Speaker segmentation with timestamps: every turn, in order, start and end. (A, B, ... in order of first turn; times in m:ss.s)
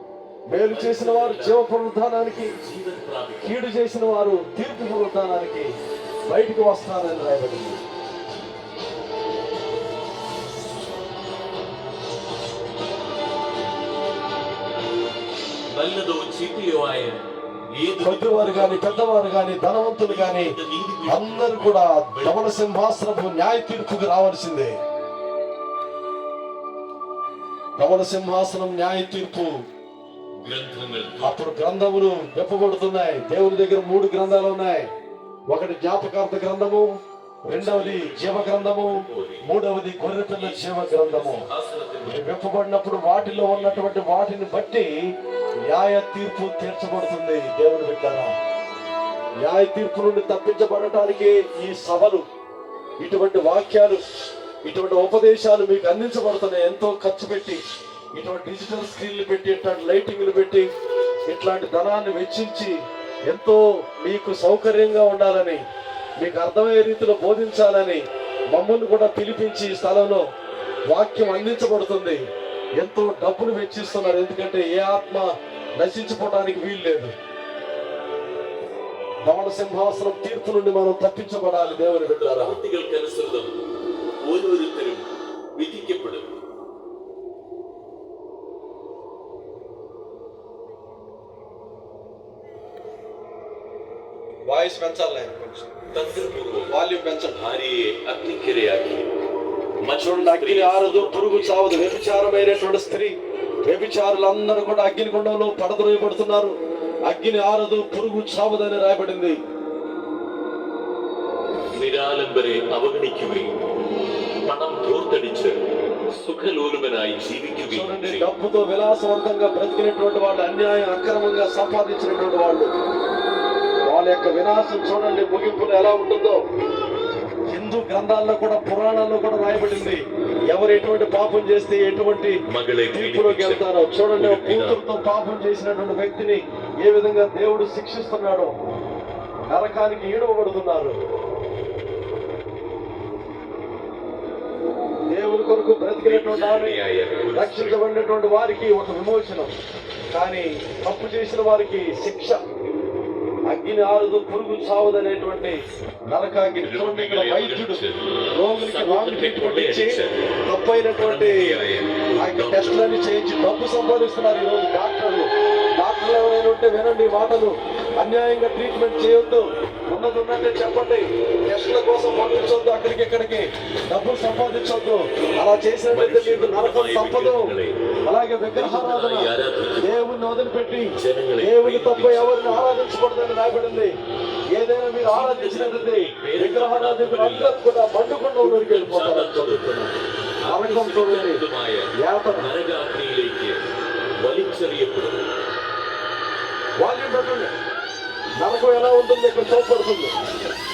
0:00.5-0:02.6 A
0:00.7-0:01.6 B
0:02.6-0:03.5 B
0:03.4-0:05.7 A
0:06.3-0:07.8 A
0:15.7-0:19.2 B
0:18.0-0:20.6 A
0:20.0-0:22.5 B
0:21.1-0:24.8 A
0:27.8-0:29.5 A
0:30.4-0:31.5 B
0:31.2-0:34.9 A
0:35.5-0:36.9 A
0:37.5-0:41.5 A
0:37.6-0:39.4 B
0:40.4-0:42.3 B
0:42.1-0:44.9 A
0:43.2-0:44.0 B
0:45.7-0:48.3 A
0:49.4-0:52.2 A
0:53.0-0:54.0 A
0:54.6-0:57.6 A
0:58.2-1:00.7 A
1:01.3-1:02.8 A
1:03.3-1:05.6 A
1:06.2-1:10.3 A
1:10.9-1:12.2 A
1:12.8-1:17.1 A
1:19.3-1:22.6 A
1:21.6-1:23.5 B
1:24.2-1:26.3 B
1:34.5-1:35.6 A
1:35.9-1:36.7 B
1:36.7-1:37.4 A
1:37.3-1:39.1 B
1:39.8-1:41.9 B
1:40.0-1:43.2 A
1:43.7-1:46.6 A
1:47.1-1:49.4 A
1:51.8-1:53.5 B
1:54.4-1:55.6 B
1:56.1-1:58.3 B
1:57.7-2:02.7 A
2:03.9-2:06.4 A
2:07.5-2:12.4 A
2:12.5-2:14.8 B
2:12.9-2:18.5 A
2:19.5-2:21.0 A
2:25.1-2:26.8 A
2:26.0-2:27.8 B
2:27.3-2:29.5 A
2:30.1-2:32.4 A
2:33.5-2:41.6 A
2:36.6-2:40.2 B
2:41.0-2:42.8 B
2:42.2-2:57.6 A
2:55.9-2:57.8 B
2:58.1-2:59.3 A
2:58.5-2:59.9 B
2:59.8-3:03.9 A
3:01.0-3:02.7 B
3:04.6-3:09.9 A
3:05.0-3:07.6 B
3:08.4-3:09.8 B
3:10.4-3:13.6 B
3:10.5-3:11.4 A
3:12.0-3:12.5 A
3:14.2-3:15.2 B
3:16.8-3:17.5 A
3:18.4-3:20.1 A